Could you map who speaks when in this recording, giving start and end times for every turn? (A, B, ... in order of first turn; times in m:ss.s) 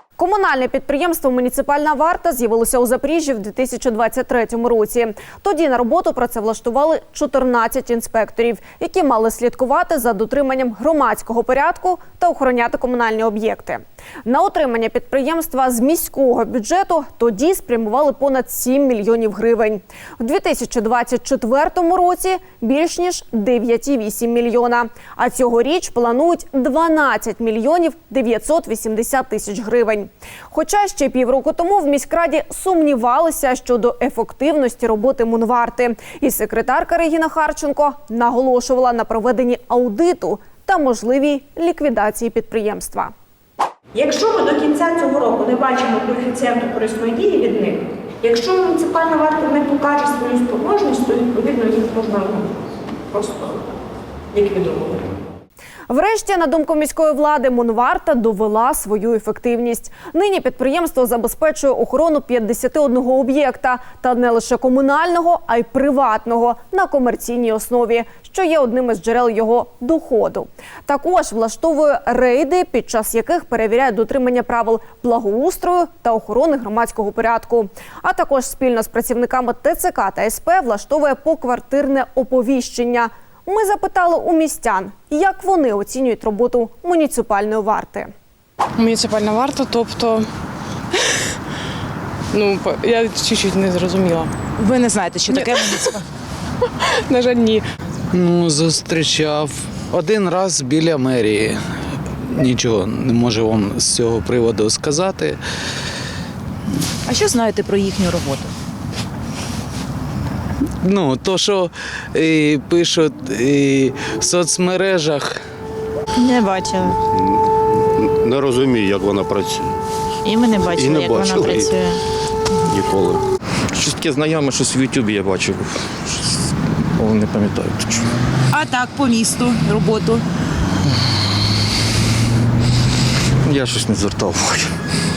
0:00.2-0:43.1 A
0:43.9-0:52.5 B
0:53.1-0:53.6 B
0:54.3-0:55.1 B
0:55.9-1:28.1 A
1:28.8-1:30.3 C
1:32.3-1:34.4 C
1:34.6-1:36.0 D
1:35.3-1:35.9 C
1:36.8-1:37.6 C
1:38.1-1:41.6 E
1:42.1-1:45.4 E
1:47.0-1:48.5 D
1:50.8-1:55.4 E
1:56.2-1:56.9 F
1:57.0-1:59.7 G
2:00.3-2:01.9 G
2:00.3-2:02.0 F
2:00.4-2:00.9 D
2:02.6-2:03.2 G
2:03.7-2:06.3 H
2:07.0-2:08.1 H
2:08.5-2:10.2 D
2:13.4-2:14.7 H